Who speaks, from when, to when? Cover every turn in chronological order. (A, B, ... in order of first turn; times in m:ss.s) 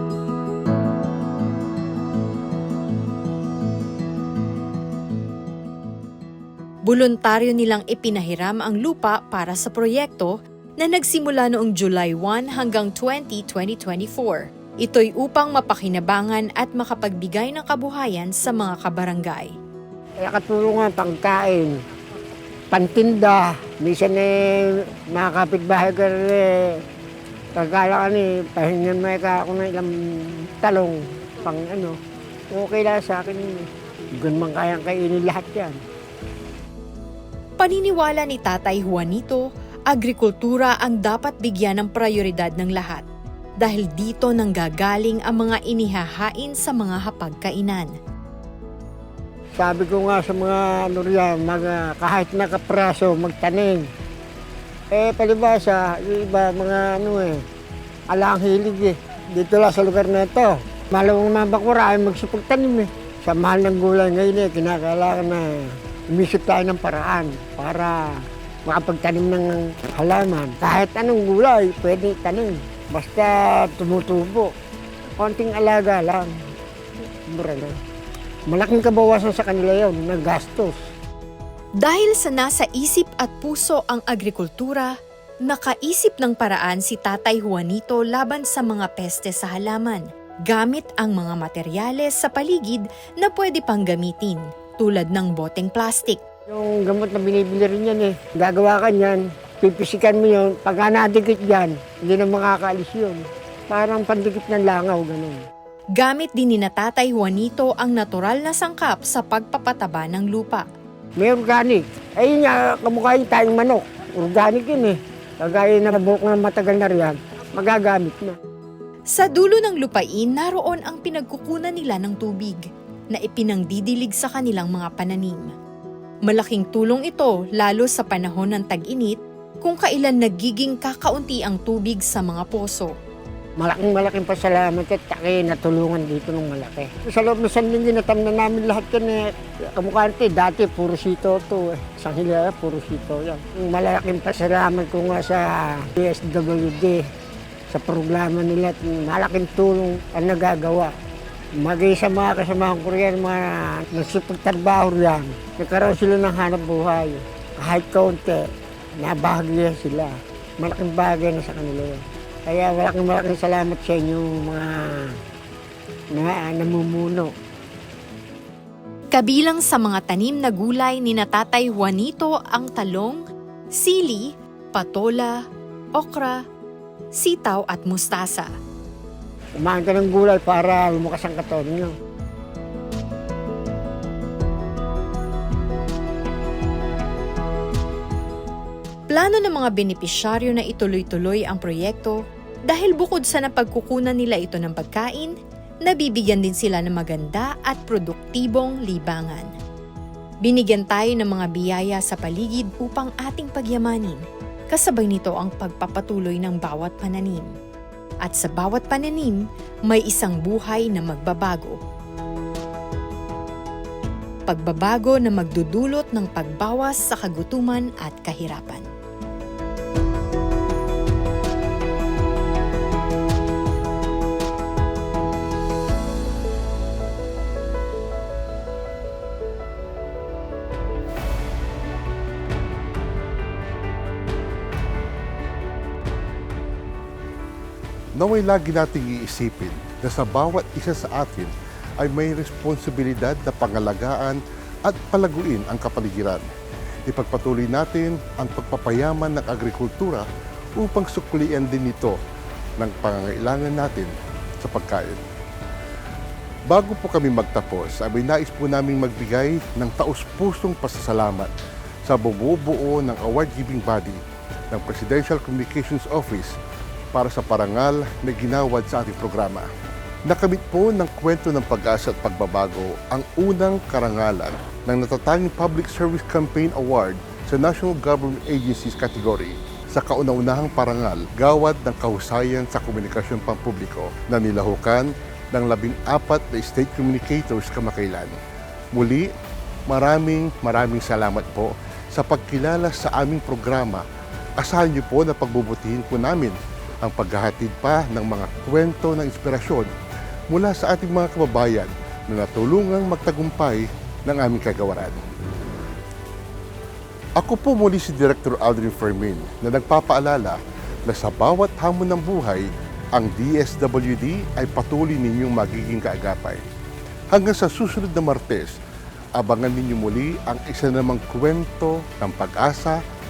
0:06.8-0:19.5 A
0:20.2-0:21.7 B
0:22.7-0:24.3 B
0:25.1-0:26.4 B
0:27.6-0:32.0 B
0:32.5-0:33.6 B
0:34.2-0:35.8 B
0:37.6-0:43.0 A
0:43.6-0:47.9 A
0:49.6-0:53.9 B
0:54.9-0:57.4 B
0:58.1-1:05.4 B
1:06.1-1:08.0 B
1:08.6-1:14.5 B
1:15.2-1:16.3 B
1:17.3-1:17.7 B
1:18.5-1:20.8 B
1:21.8-1:36.2 A
1:36.5-1:45.4 B
1:46.0-1:50.6 A
1:51.2-1:58.4 B
1:59.1-2:05.5 A
2:06.2-2:12.9 A
2:13.6-2:27.0 B
2:27.7-2:30.9 B
2:31.6-2:38.4 B
2:39.0-2:45.1 B
2:46.1-2:47.3 B
2:49.1-2:53.2 A
2:53.7-2:55.4 A
2:55.9-2:56.4 A
2:57.2-2:58.5 A
2:59.5-3:01.9 B
3:09.1-3:19.5 A
3:20.4-3:27.5 A
3:28.2-3:31.8 A
3:34.5-3:38.9 A
3:58.2-4:06.4 C
4:07.1-4:10.2 C
4:10.8-4:12.2 C
4:12.8-4:15.2 C
4:16.7-4:21.5 C
4:22.0-4:24.2 C
4:24.7-4:26.5 C
4:27.1-4:29.6 C
4:30.3-4:48.3 C
4:48.9-4:49.3 C
4:49.9-4:54.0 C
4:54.6-4:59.9 C
5:00.5-5:05.2 C
5:07.4-5:16.6 C
5:17.3-5:18.7 C
5:19.4-5:23.0 C